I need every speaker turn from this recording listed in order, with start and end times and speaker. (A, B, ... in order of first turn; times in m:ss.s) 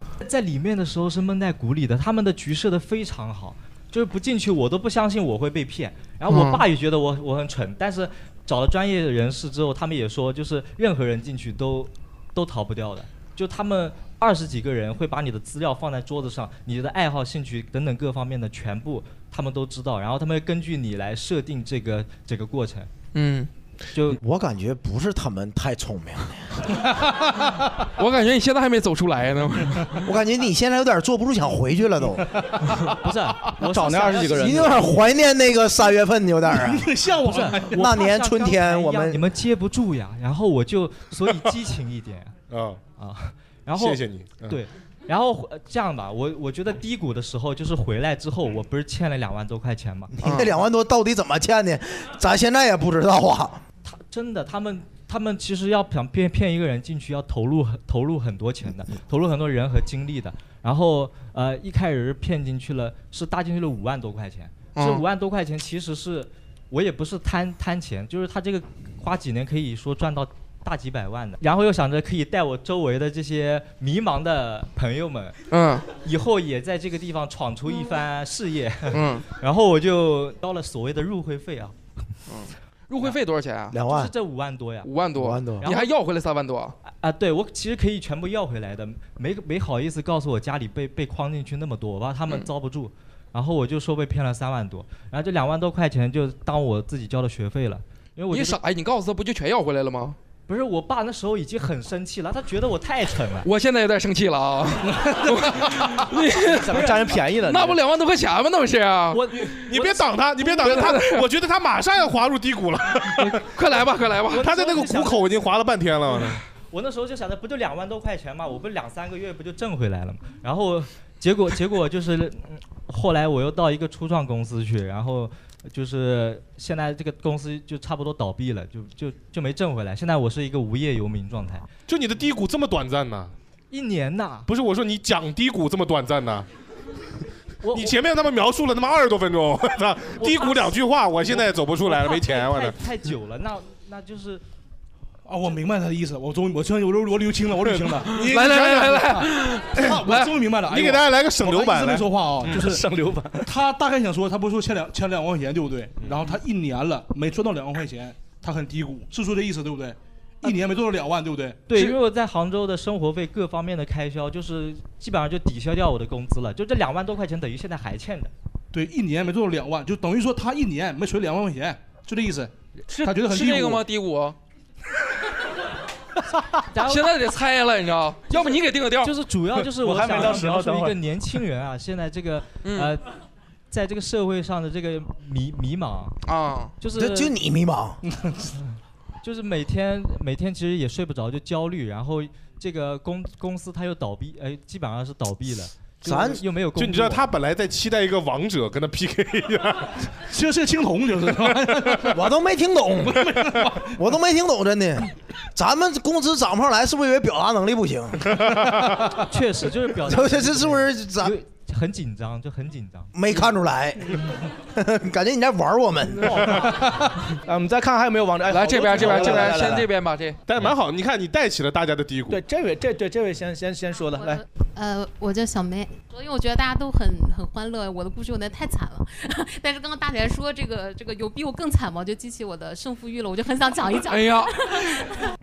0:00.2-0:22.9 A
0:06.3-0:06.6 B
0:23.1-0:23.5 B
0:23.9-0:24.2 A
0:24.1-0:26.8 C
0:28.0-0:30.0 B
0:30.0-0:32.3 C
0:32.9-0:34.9 A
0:33.5-0:34.8 D
0:34.3-0:36.9 C
0:36.5-0:38.1 E
0:37.2-0:42.3 A
0:37.7-0:39.2 C
0:42.5-0:42.8 F
0:43.0-0:50.1 A
0:43.8-0:44.6 F
0:50.2-0:53.6 C
0:53.8-1:15.4 A
1:04.7-1:05.0 B
1:15.5-1:15.9 B
1:15.9-1:21.7 A
1:18.9-1:19.2 B
1:22.3-1:23.8 B
1:23.7-1:24.1 C
1:23.8-1:24.9 A
1:24.8-1:26.8 B
1:25.2-1:25.7 C
1:25.6-1:25.9 A
1:26.8-1:38.6 A
1:38.3-1:40.2 B
1:40.5-1:43.5 A
1:43.4-1:49.6 B
1:44.9-1:45.3 E
1:46.5-1:47.8 D
1:49.1-1:50.0 A
1:49.6-1:53.4 F
1:50.5-1:51.2 B
1:53.4-1:54.5 B
1:54.3-1:55.3 A
1:54.4-1:56.4 F
1:56.7-2:11.7 A
2:11.9-2:13.3 F
2:13.7-2:14.5 A
2:14.4-2:16.4 F
2:17.6-2:18.0 A
2:17.7-2:22.8 F
2:20.2-2:24.4 A
2:25.3-2:32.8 E
2:28.0-2:30.3 B
2:28.3-2:29.0 F
2:30.6-2:32.7 F
2:32.5-2:33.5 D
2:33.4-2:41.6 E
2:36.0-2:36.3 F
2:41.7-2:48.3 A
2:48.7-2:52.5 E
2:52.9-2:54.4 B
2:53.0-2:53.8 E
2:56.7-2:57.2 A
2:56.8-2:59.2 B
2:58.4-3:03.0 A
2:59.8-3:01.0 D
3:02.6-3:02.9 B
3:03.7-3:06.2 A
3:06.2-3:06.8 B
3:06.8-3:07.3 A
3:06.9-3:08.0 C
3:08.0-3:08.5 E
3:09.2-3:17.2 A
3:16.0-3:16.4 C
3:16.6-3:20.1 F
3:20.3-3:22.3 E
3:22.0-3:23.4 C
3:23.0-3:24.0 E
3:23.9-3:28.6 C
3:28.3-3:29.2 F
3:29.2-3:33.1 A
3:30.0-3:31.4 C
3:33.1-3:36.5 C
3:36.2-3:39.9 D
3:38.5-3:40.4 B
3:40.5-3:42.4 F
3:42.3-3:44.4 D
3:44.1-3:55.1 G
3:54.0-3:54.5 B